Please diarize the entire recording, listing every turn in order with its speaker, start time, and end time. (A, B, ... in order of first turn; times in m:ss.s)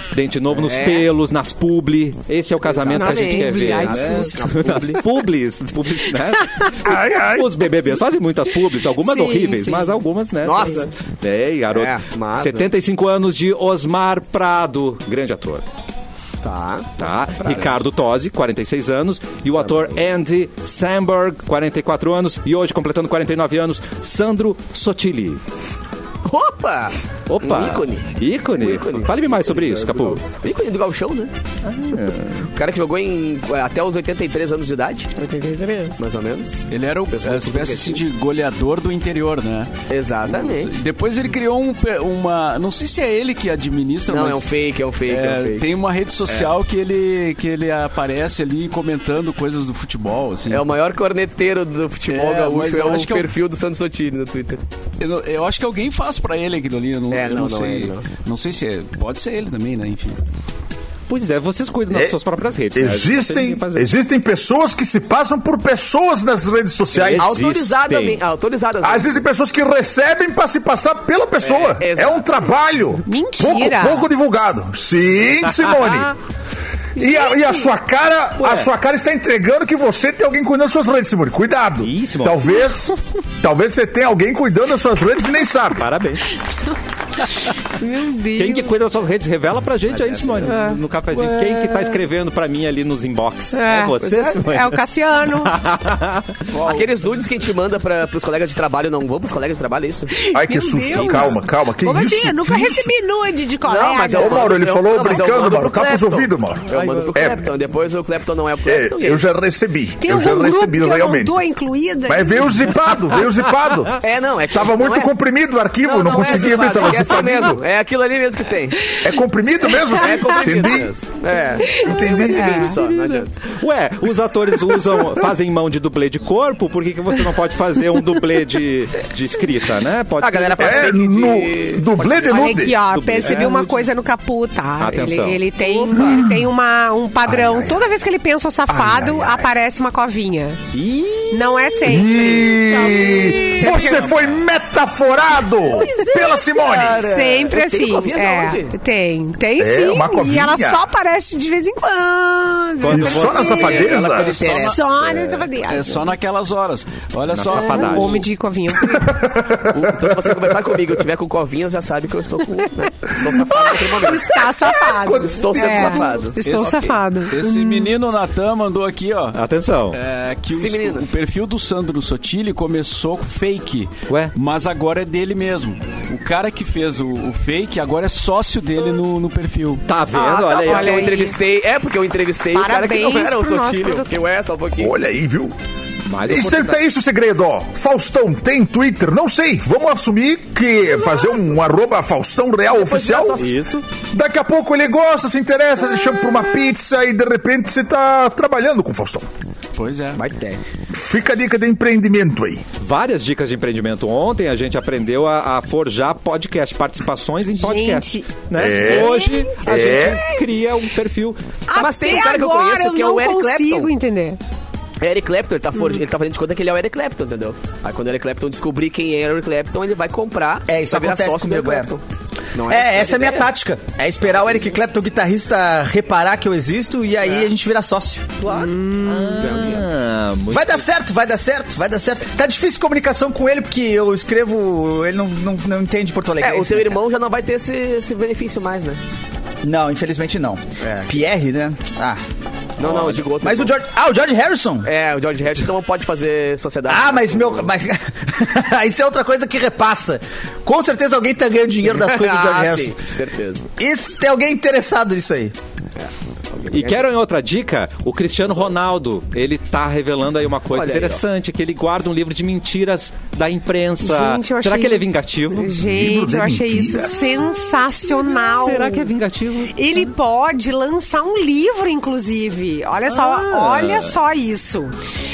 0:00.1-0:15.6 A
0:00.5-0:01.1 B
0:02.6-0:05.0 B
0:02.9-0:04.4 C
0:06.8-0:07.5 B
0:08.9-0:10.0 C
0:10.4-0:10.9 B
0:11.7-0:12.7 B
0:16.4-0:17.8 B
0:17.0-0:25.4 A
0:19.6-0:19.9 B
0:26.2-0:31.3 B
0:27.3-0:30.2 A
0:31.6-0:32.5 A
0:32.5-0:35.1 B
0:35.2-0:36.0 C
0:36.0-0:38.0 B
0:36.7-0:39.7 D
0:39.9-0:40.7 B
0:40.2-0:44.4 D
0:44.1-0:45.7 B
0:45.1-0:50.6 D
0:46.3-0:46.5 B
0:50.5-0:54.6 B
0:52.1-0:53.2 D
0:55.0-1:00.2 D
0:57.1-0:58.0 B
1:01.1-1:03.9 A
1:02.7-1:07.4 E
1:06.9-1:08.2 A
1:07.1-1:09.2 B
1:08.8-1:16.1 E
1:11.4-1:12.4 B
1:13.1-1:14.1 C
1:17.0-1:25.8 E
1:18.4-1:18.7 A
1:21.8-1:22.6 A
1:25.8-1:26.3 A
1:27.8-1:28.7 C
1:28.3-1:36.4 A
1:29.9-1:30.6 B
1:30.4-1:30.8 C
1:33.5-1:35.5 C
1:36.5-1:36.9 D
1:36.6-1:40.1 B
1:40.1-1:45.4 C
1:40.3-1:42.9 E
1:43.6-1:49.2 B
1:44.2-1:47.4 E
1:48.6-1:51.4 E
1:50.0-1:52.8 C
1:52.1-1:57.6 E
1:54.0-1:55.1 B
1:55.8-1:59.0 B
1:59.0-2:00.9 E
1:59.9-2:03.3 B
2:01.6-2:03.2 C
2:01.7-2:02.7 E
2:03.5-2:11.0 A
2:10.2-2:12.3 B
2:10.6-2:12.8 E
2:12.3-2:20.6 C
2:12.9-2:13.7 A
2:13.2-2:13.6 B
2:14.8-2:15.4 A
2:15.6-2:16.1 B
2:17.2-2:17.8 E
2:18.7-2:19.5 E
2:20.7-2:21.8 A
2:21.3-2:24.1 C
2:21.8-2:27.2 E
2:22.7-2:24.0 B
2:25.6-2:28.8 B
2:25.7-2:36.1 C
2:29.6-2:30.8 E
2:32.8-2:33.6 A
2:32.9-2:34.5 E
2:33.4-2:34.8 B
2:33.7-2:38.2 D
2:37.3-2:38.2 A
2:37.5-2:39.3 C
2:38.8-2:40.3 E
2:39.8-2:44.4 B
2:43.5-2:48.0 C
2:44.9-2:46.3 E
2:45.2-2:46.9 B
2:46.4-2:49.4 D
2:49.3-2:50.0 A
2:49.9-2:59.8 D
2:50.5-2:51.1 B
2:54.1-2:54.3 A
2:59.9-3:01.2 A
3:00.1-3:04.9 B
3:00.6-3:01.4 C
3:02.5-3:04.1 C
3:04.8-3:05.5 E
3:06.1-3:06.8 A
3:06.3-3:13.4 E
3:12.7-3:13.6 B
3:13.4-3:13.8 A
3:14.1-3:19.3 E
3:19.7-3:20.2 D
3:20.1-3:20.6 B
3:20.9-3:22.6 E
3:22.8-3:31.4 A
3:27.6-3:30.4 C
3:28.6-3:30.2 E
3:31.7-3:34.4 C
3:31.7-3:33.9 B
3:35.0-3:42.0 B
3:40.7-3:41.9 F
3:42.5-3:43.5 B
3:42.7-3:48.3 F
3:47.2-3:47.5 B
3:48.4-3:48.8 B
3:48.4-3:49.4 C
3:49.0-3:50.8 A
3:49.4-3:49.9 B
3:50.5-3:57.0 F
3:56.4-3:59.0 B
3:59.6-4:02.2 F
4:00.8-4:01.2 B
4:02.8-4:03.7 B
4:02.8-4:03.2 A
4:03.4-4:04.9 F
4:04.8-4:07.7 B
4:06.9-4:12.9 F
4:11.8-4:13.7 B
4:13.8-4:15.5 F
4:16.0-4:17.0 B
4:16.7-4:25.8 A
4:20.7-4:21.2 B
4:24.0-4:29.1 C
4:25.8-4:27.4 E
4:28.3-4:29.8 A
4:29.7-4:34.9 C
4:33.1-4:34.2 A